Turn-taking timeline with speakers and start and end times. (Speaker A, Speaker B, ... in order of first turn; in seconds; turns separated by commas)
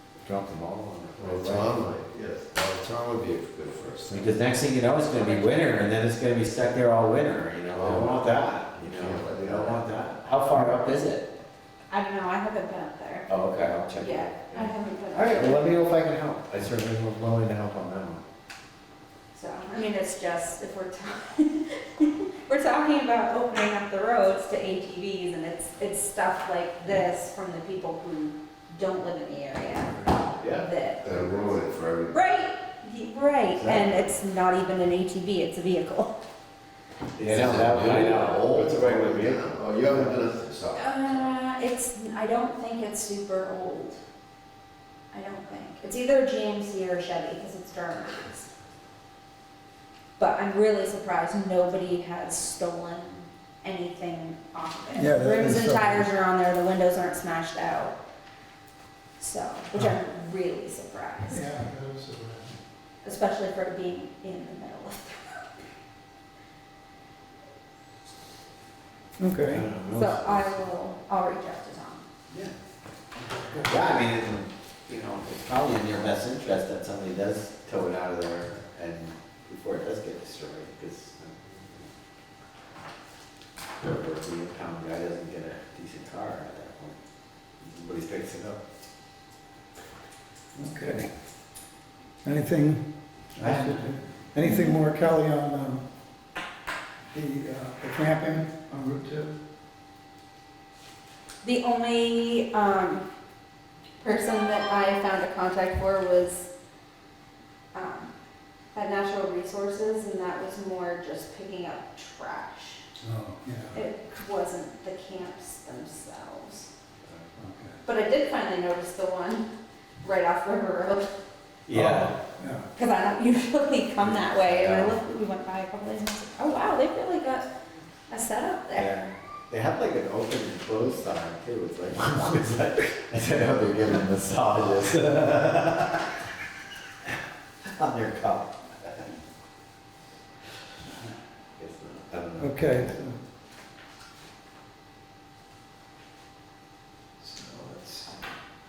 Speaker A: 0.2-1.9, Speaker B: 1.2-4.4, Speaker A: 4.1-11.3, Speaker B: 7.7-9.9, Speaker C: 11.9-13.3, Speaker A: 13.3-18.2, Speaker C: 14.0-15.7, Speaker C: 19.3-31.0, Speaker A: 30.4-31.4, Speaker B: 31.0-32.2, Speaker C: 32.1-36.2, Speaker A: 33.5-34.0, Speaker A: 37.1-40.2, Speaker B: 37.2-41.0, Speaker C: 40.8-44.0, Speaker C: 45.1-48.5, Speaker C: 50.2-58.0, Speaker D: 55.0-56.1, Speaker C: 59.2-61.4, Speaker D: 61.3-62.6, Speaker C: 63.0-65.6, Speaker D: 69.2-69.7, Speaker A: 69.5-70.7, Speaker C: 69.9-72.1, Speaker A: 72.3-72.5, Speaker D: 73.2-73.8, Speaker A: 73.6-81.9, Speaker A: 83.8-87.0, Speaker A: 87.6-88.6, Speaker D: 90.5-91.1, Speaker D: 92.2-95.8, Speaker A: 93.4-94.0, Speaker C: 94.4-94.7, Speaker D: 97.1-99.3, Speaker C: 101.4-103.1, Speaker C: 104.0-106.5, Speaker C: 107.7-108.1, Speaker C: 108.7-112.8, Speaker D: 113.0-113.8, Speaker C: 113.7-116.7, Speaker D: 117.4-117.8, Speaker C: 117.8-119.5, Speaker C: 120.0-121.1, Speaker A: 121.7-122.2, Speaker D: 121.7-122.7, Speaker C: 122.8-127.5, Speaker A: 124.0-125.0, Speaker C: 128.1-129.1, Speaker A: 128.8-136.2, Speaker A: 137.8-139.1, Speaker D: 140.9-141.1, Speaker A: 141.6-142.7, Speaker D: 142.4-143.2, Speaker D: 147.2-148.2